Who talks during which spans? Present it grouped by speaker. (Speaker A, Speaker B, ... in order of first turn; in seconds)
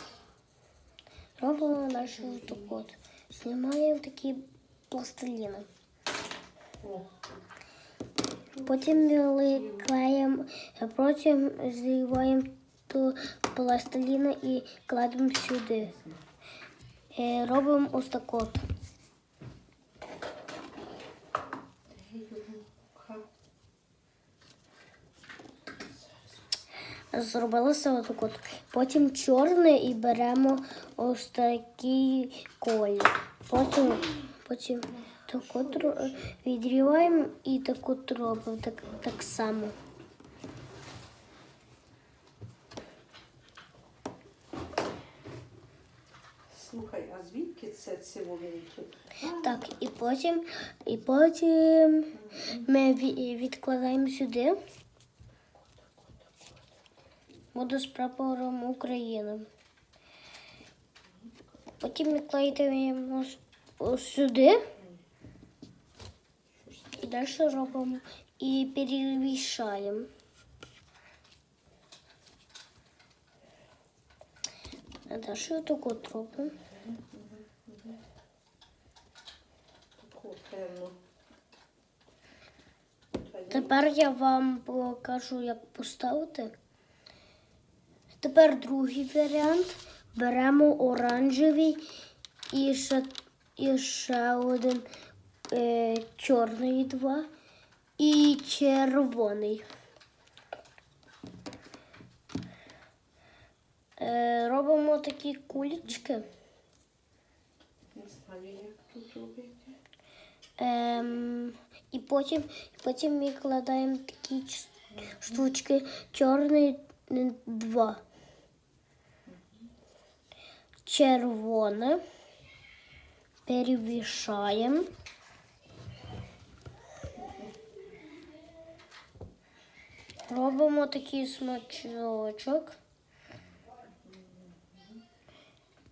Speaker A: 1.4-5.7, 8.6-15.9, 17.1-18.6, 27.1-39.8, 49.3-54.6, 57.5-59.5, 61.8-64.7, 67.0-70.1, 75.1-76.6, 83.5-86.5, 88.2-91.8, 92.5-94.9, 95.5-97.3, 98.0-99.6, 104.0-106.3, 110.6-118.0, 120.8-122.0, 123.5-124.9, 130.3-132.8
Speaker B: 2.0-2.8, 6.8-7.1, 8.6-9.9, 21.9-23.3, 35.1-37.3, 46.5-49.6, 52.1-52.7, 55.7-56.5, 66.5-67.0, 76.6-78.0, 80.0-81.0, 83.1-83.8, 107.9-109.7, 119.3-119.6, 127.2-127.5, 134.0-135.0